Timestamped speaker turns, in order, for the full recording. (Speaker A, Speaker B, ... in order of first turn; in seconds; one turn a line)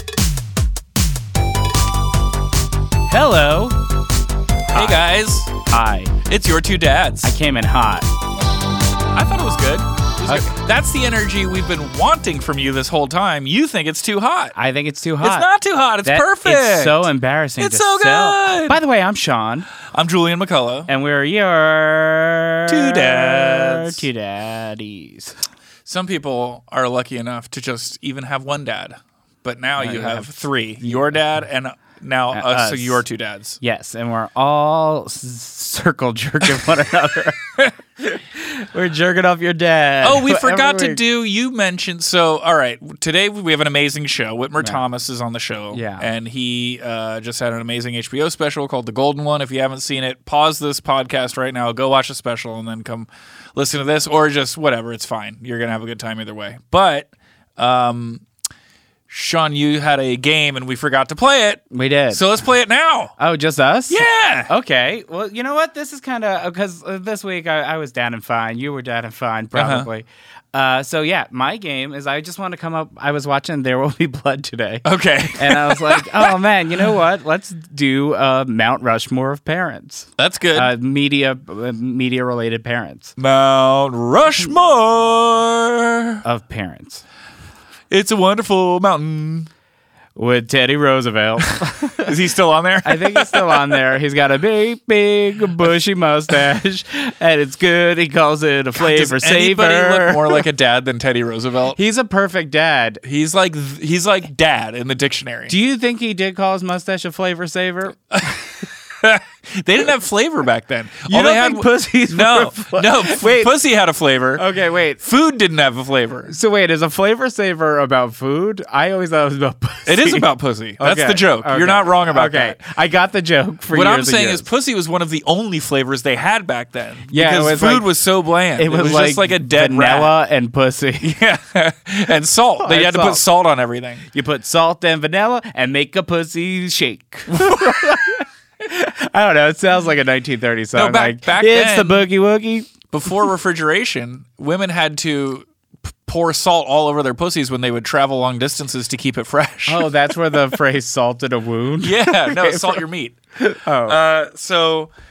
Speaker A: 3.1-3.8
Speaker A: 4.7-5.1
Speaker B: 4.7-5.5
Speaker A: 5.7-6.2
Speaker B: 6.2-7.3
Speaker A: 7.2-8.1
Speaker B: 9.1-14.5
Speaker A: 10.2-10.5
Speaker A: 14.5-15.5
Speaker B: 15.2-18.8
Speaker A: 16.0-19.7
Speaker B: 19.8-20.9
Speaker A: 20.9-25.4
Speaker B: 22.7-24.0
Speaker B: 25.9-33.6
Speaker A: 29.8-30.3
Speaker A: 32.3-33.0
Speaker A: 33.6-41.0
Speaker B: 40.0-58.2
Speaker A: 45.7-46.1
Speaker B: 59.1-63.1
Speaker A: 61.7-62.2
Speaker A: 63.2-83.1
Speaker B: 63.9-64.5
Speaker B: 69.5-69.9
Speaker B: 74.8-76.7
Speaker B: 80.2-80.7
Speaker B: 83.2-86.2
Speaker A: 86.2-87.0
Speaker B: 87.9-89.5
Speaker A: 90.2-92.1
Speaker B: 92.0-93.8
Speaker A: 92.8-100.5
Speaker B: 98.8-101.8
Speaker A: 101.7-103.0
Speaker B: 103.0-105.5
Speaker A: 105.5-108.3
Speaker B: 108.1-114.4
Speaker A: 111.0-113.5
Speaker A: 114.3-115.0
Speaker B: 115.0-116.3
Speaker A: 116.3-120.2
Speaker B: 119.8-122.6
Speaker A: 120.8-124.4
Speaker B: 123.7-130.1
Speaker A: 127.1-127.9
Speaker A: 128.6-131.2
Speaker B: 131.0-134.0
Speaker A: 132.6-133.2
Speaker A: 134.1-142.7
Speaker B: 137.4-137.9
Speaker B: 140.7-142.1
Speaker B: 142.9-145.4
Speaker B: 146.0-149.9
Speaker A: 149.7-152.8
Speaker B: 151.8-153.2
Speaker A: 153.4-154.0
Speaker B: 153.8-154.9